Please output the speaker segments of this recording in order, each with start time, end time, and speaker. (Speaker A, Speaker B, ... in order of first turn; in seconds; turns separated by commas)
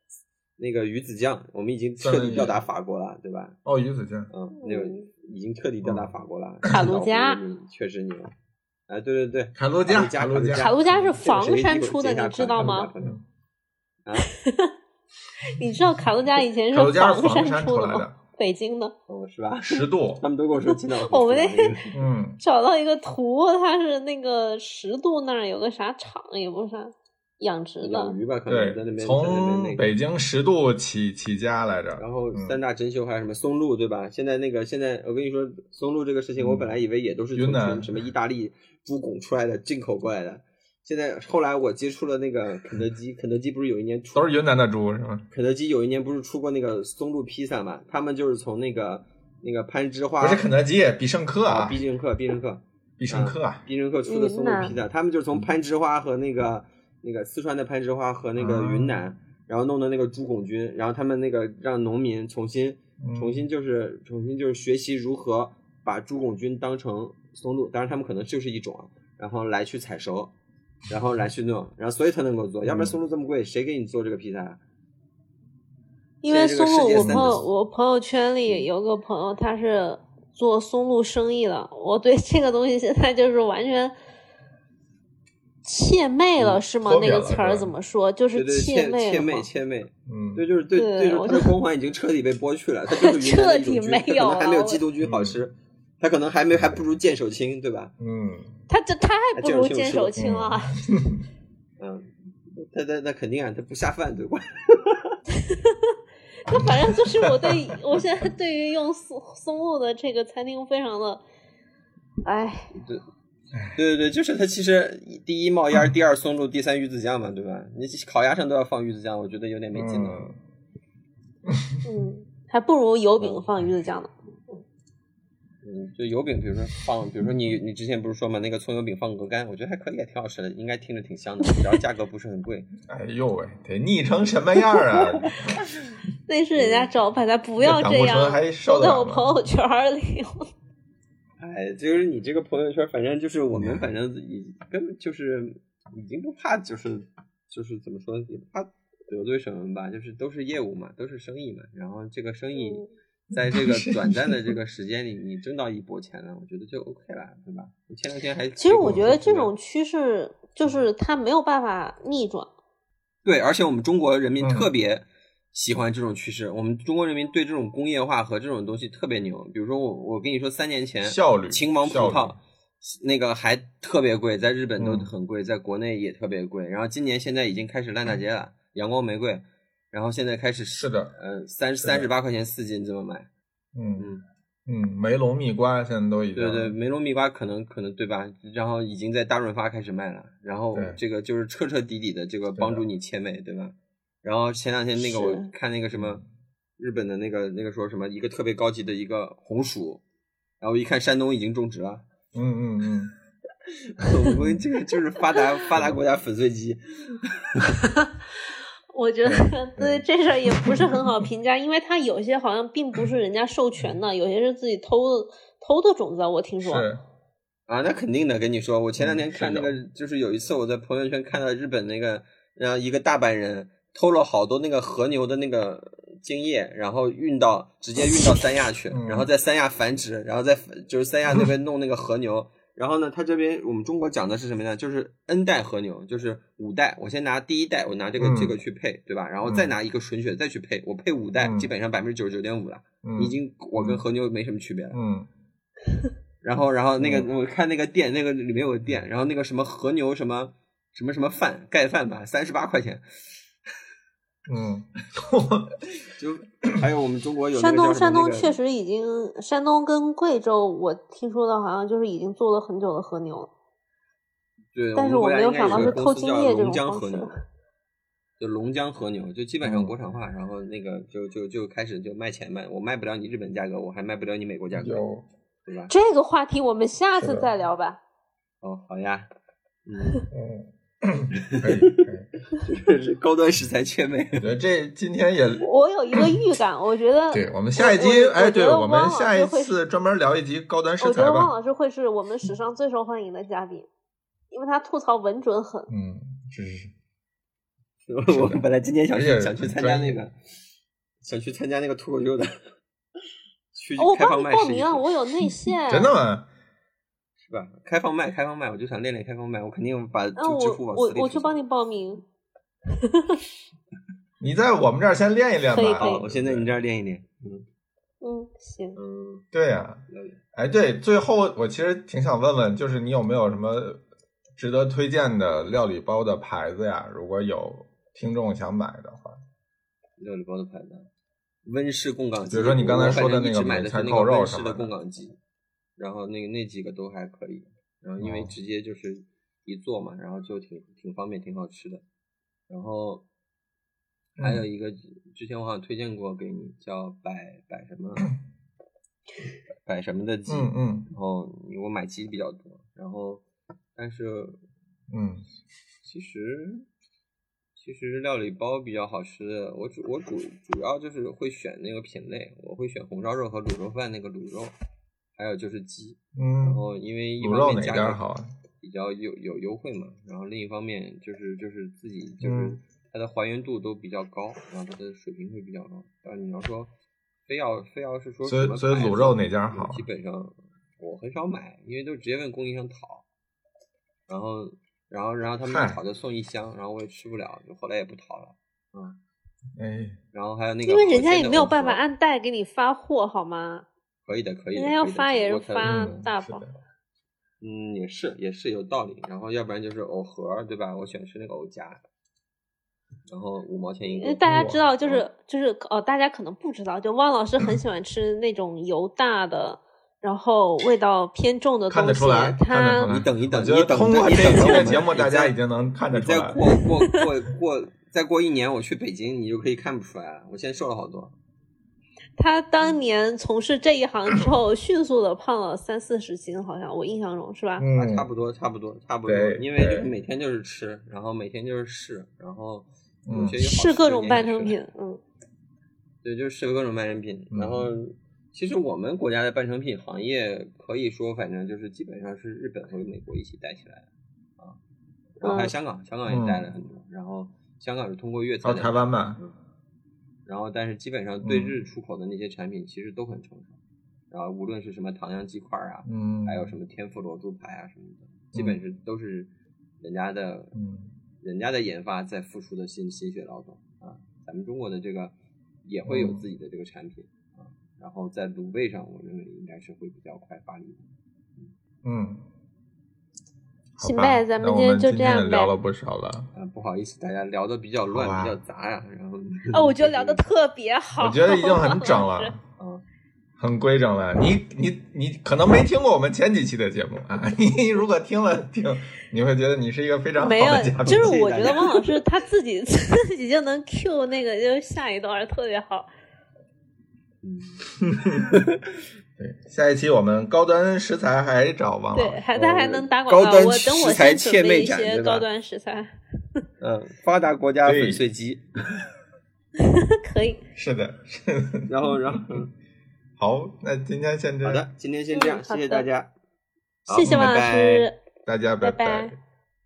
Speaker A: 0.6-3.6, Speaker B: 2.0-2.6, Speaker B: 3.6-4.3, Speaker A: 4.3-8.3, Speaker C: 4.6-5.1, Speaker B: 5.8-6.1, Speaker C: 6.7-7.4, Speaker A: 8.9-13.2, Speaker B: 9.5-11.1, Speaker C: 10.6-12.9, Speaker B: 12.6-13.2, Speaker C: 14.2-14.7, Speaker C: 15.4-18.9, Speaker B: 16.7-18.1, Speaker A: 19.1-22.0, Speaker B: 19.6-20.2, Speaker C: 20.7-21.9, Speaker B: 21.9-22.4, Speaker C: 22.4-28.1, Speaker A: 27.8-29.9, Speaker B: 28.5-32.6, Speaker A: 32.0-44.3, Speaker B: 36.4-36.7, Speaker B: 37.3-38.0, Speaker B: 44.1-45.3, Speaker A: 45.3-50.5, Speaker B: 50.2-51.8, Speaker A: 51.5-70.3, Speaker B: 53.0-53.6, Speaker C: 54.1-54.7, Speaker B: 58.4-59.0, Speaker B: 63.0-63.5, Speaker A: 70.9-74.6, Speaker B: 72.6-73.0, Speaker C: 76.2-83.9, Speaker A: 76.3-77.4, Speaker B: 77.0-77.4, Speaker C: 85.6-89.5, Speaker B: 86.5-87.7, Speaker A: 88.3-97.9, Speaker B: 90.0-90.4, Speaker C: 90.7-91.5, Speaker C: 92.9-94.8, Speaker B: 95.0-95.4, Speaker B: 96.5-96.8, Speaker B: 98.0-98.6, Speaker C: 98.7-100.8, Speaker A: 99.3-100.2, Speaker B: 100.2-101.2, Speaker A: 101.8-105.2, Speaker C: 105.5-105.8, Speaker C: 106.5-111.2, Speaker B: 106.5-107.5, Speaker C: 112.2-112.7, Speaker A: 112.7-113.0, Speaker B: 113.5-113.8, Speaker A: 113.7-120.3, Speaker B: 119.7-120.3, Speaker B: 121.5-121.8, Speaker C: 121.8-124.1, Speaker A: 123.2-123.5, Speaker A: 125.6-132.7, Speaker B: 132.9-135.5, Speaker C: 136.3-140.5, Speaker A: 136.6-136.9, Speaker B: 137.6-139.3, Speaker A: 141.4-159.5, Speaker B: 143.5-143.8, Speaker C: 152.6-152.9, Speaker B: 153.3-154.5, Speaker C: 158.6-162.5, Speaker A: 163.2-183.3, Speaker B: 164.4-164.7, Speaker B: 171.0-172.4, Speaker B: 174.8-175.1, Speaker B: 180.7-181.1, Speaker B: 181.8-182.1, Speaker B: 183.7-184.1, Speaker A: 183.9-184.2, Speaker B: 184.7-186.8, Speaker A: 186.3-196.2, Speaker B: 190.7-191.0, Speaker B: 192.6-192.8, Speaker C: 195.0-195.5, Speaker B: 195.9-196.2, Speaker A: 196.8-200.0, Speaker A: 200.6-202.1, Speaker B: 202.3-203.1, Speaker A: 203.7-207.8, Speaker C: 208.9-216.9, Speaker B: 209.8-210.0, Speaker B: 216.6-217.0, Speaker A: 217.7-245.0, Speaker B: 219.0-219.8, Speaker B: 228.9-229.3, Speaker B: 238.2-238.5, Speaker B: 239.4-239.7, Speaker B: 241.4-241.7, Speaker B: 243.0-244.0, Speaker B: 244.9-245.3, Speaker A: 246.4-253.0, Speaker B: 247.0-247.3, Speaker B: 254.4-255.8, Speaker A: 256.1-258.6, Speaker C: 257.5-263.5, Speaker A: 264.7-267.3, Speaker C: 264.9-267.3, Speaker B: 265.6-266.0, Speaker A: 268.4-275.0, Speaker B: 269.6-269.9, Speaker B: 274.8-275.2, Speaker A: 275.6-275.9, Speaker C: 275.9-278.0, Speaker B: 277.1-277.5, Speaker A: 278.6-279.3, Speaker A: 279.9-280.3, Speaker B: 280.3-282.3, Speaker A: 281.4-284.4, Speaker B: 284.4-286.4, Speaker C: 285.6-289.8, Speaker B: 287.3-291.5, Speaker C: 291.0-293.9, Speaker C: 294.5-295.9, Speaker B: 295.9-296.9, Speaker A: 298.1-300.3, Speaker B: 298.3-300.2, Speaker A: 301.2-302.5, Speaker A: 303.7-305.1, Speaker C: 304.0-306.1, Speaker B: 305.9-306.5, Speaker A: 307.4-311.6, Speaker C: 310.4-312.2, Speaker C: 312.9-313.4, Speaker B: 314.4-316.7, Speaker C: 315.7-316.2, Speaker A: 316.0-317.6, Speaker C: 318.2-319.0, Speaker A: 318.9-319.4, Speaker B: 319.5-320.0, Speaker A: 320.1-320.4, Speaker B: 320.5-324.0, Speaker B: 324.6-329.4, Speaker A: 330.2-331.1, Speaker A: 331.6-335.4, Speaker B: 332.5-334.9, Speaker A: 336.0-342.0, Speaker B: 338.2-338.5, Speaker A: 342.7-343.2, Speaker B: 344.4-344.6, Speaker A: 344.4-348.3, Speaker A: 349.8-353.4, Speaker B: 350.5-351.1, Speaker A: 353.9-354.6, Speaker B: 355.1-355.4, Speaker A: 356.0-356.9, Speaker A: 357.8-364.7, Speaker A: 365.4-368.2, Speaker B: 366.4-366.8, Speaker B: 367.4-368.5, Speaker A: 368.8-376.9, Speaker B: 372.4-372.8, Speaker A: 377.4-383.2, Speaker B: 378.4-380.0, Speaker A: 384.3-389.2, Speaker B: 385.7-386.0, Speaker B: 389.8-390.2, Speaker A: 390.3-392.0, Speaker C: 390.9-393.9, Speaker A: 394.2-396.3, Speaker C: 394.7-396.7, Speaker B: 395.8-396.8, Speaker A: 397.6-402.0, Speaker A: 403.3-404.4, Speaker C: 404.1-413.1, Speaker B: 404.4-404.9, Speaker B: 411.9-416.6, Speaker A: 413.1-415.5, Speaker A: 416.1-421.3, Speaker C: 422.4-427.9, Speaker B: 427.8-428.3, Speaker A: 427.9-434.8, Speaker B: 429.2-430.1, Speaker B: 433.3-433.6, Speaker C: 433.6-435.2, Speaker A: 436.2-444.1, Speaker B: 437.5-437.9, Speaker A: 445.4-449.6, Speaker C: 445.4-445.7, Speaker B: 446.3-446.6, Speaker B: 448.6-449.4, Speaker A: 450.4-453.8, Speaker B: 451.4-451.8, Speaker A: 454.3-460.7, Speaker B: 456.0-456.7, Speaker B: 460.7-461.1, Speaker A: 461.4-471.7, Speaker B: 466.1-466.4, Speaker B: 472.0-472.4, Speaker B: 474.0-476.5, Speaker C: 474.0-475.7, Speaker A: 476.5-480.4, Speaker B: 478.1-478.6, Speaker C: 479.7-482.5, Speaker B: 481.2-482.6, Speaker A: 482.8-483.0, Speaker B: 483.6-491.4, Speaker C: 490.4-496.1, Speaker A: 491.0-492.2, Speaker A: 497.4-497.9, Speaker B: 498.0-498.5, Speaker A: 498.4-499.0, Speaker B: 499.4-502.4, Speaker C: 502.1-506.6, Speaker A: 502.5-505.5, Speaker A: 506.8-509.0, Speaker B: 507.8-508.2, Speaker C: 509.8-510.6, Speaker B: 510.7-512.6, Speaker A: 511.9-512.7, Speaker B: 513.4-514.9, Speaker A: 514.6-516.3, Speaker C: 515.3-516.0, Speaker A: 517.0-518.1, Speaker C: 517.1-518.2, Speaker B: 517.2-517.6, Speaker B: 518.5-519.4, Speaker C: 518.8-519.3